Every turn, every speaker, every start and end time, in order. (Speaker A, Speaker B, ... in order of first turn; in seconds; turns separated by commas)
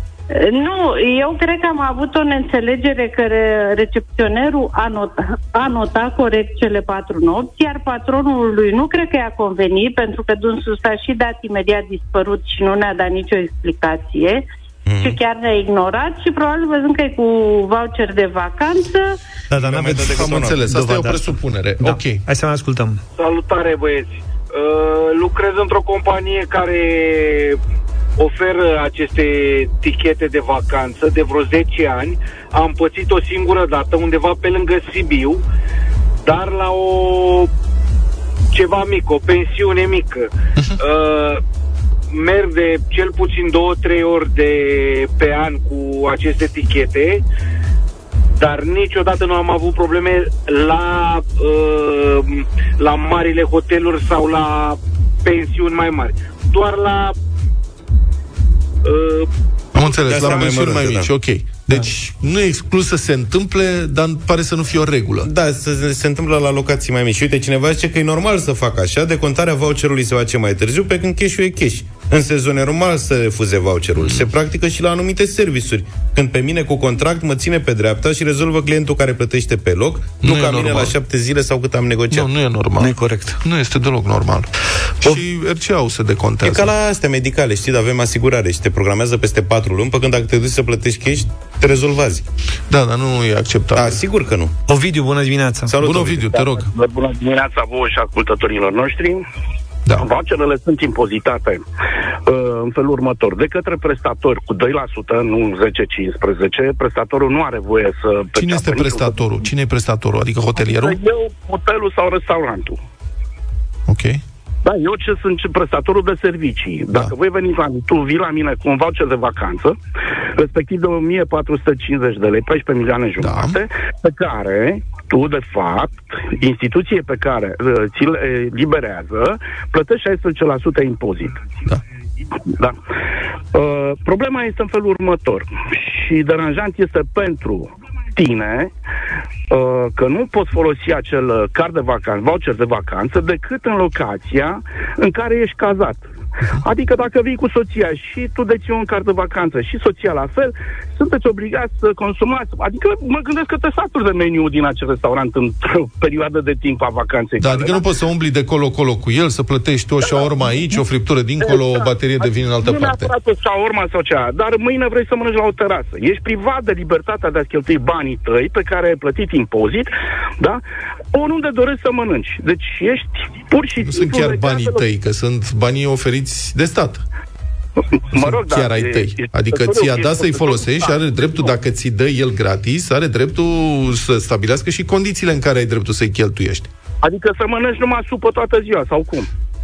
Speaker A: 0.3-14.5, Speaker B: 14.9-15.2, Speaker A: 15.0-19.2, Speaker C: 19.5-23.0, Speaker B: 19.6-20.6, Speaker D: 20.1-22.2, Speaker E: 23.2-27.6, Speaker E: 28.2-35.4, Speaker E: 36.2-37.5, Speaker E: 38.5-41.4, Speaker E: 42.1-47.2, Speaker E: 48.4-57.1, Speaker E: 58.8-59.3, Speaker D: 59.8-65.3, Speaker B: 60.1-61.1, Speaker E: 60.1-60.4, Speaker B: 65.2-82.3, Speaker D: 80.2-80.9, Speaker D: 82.1-84.5, Speaker C: 82.8-83.4, Speaker D: 85.0-86.7, Speaker B: 86.4-92.3, Speaker D: 92.7-94.0, Speaker B: 93.8-94.5, Speaker C: 94.7-95.7, Speaker B: 95.7-96.5, Speaker D: 95.8-96.7, Speaker F: 96.7-99.2, Speaker F: 100.0-101.6, Speaker F: 102.3-109.2, Speaker D: 108.4-111.0, Speaker F: 110.6-112.8, Speaker D: 113.9-114.2, Speaker F: 114.6-119.8, Speaker F: 120.4-131.5, Speaker D: 123.2-123.6, Speaker F: 133.5-138.7, Speaker F: 139.5-146.1, Speaker F: 146.6-157.8, Speaker D: 157.4-163.1, Speaker F: 160.0-160.3, Speaker F: 161.4-170.6, Speaker F: 171.1-174.8, Speaker D: 173.8-177.0, Speaker F: 177.8-181.5, Speaker D: 178.2-186.7, Speaker F: 187.0-189.3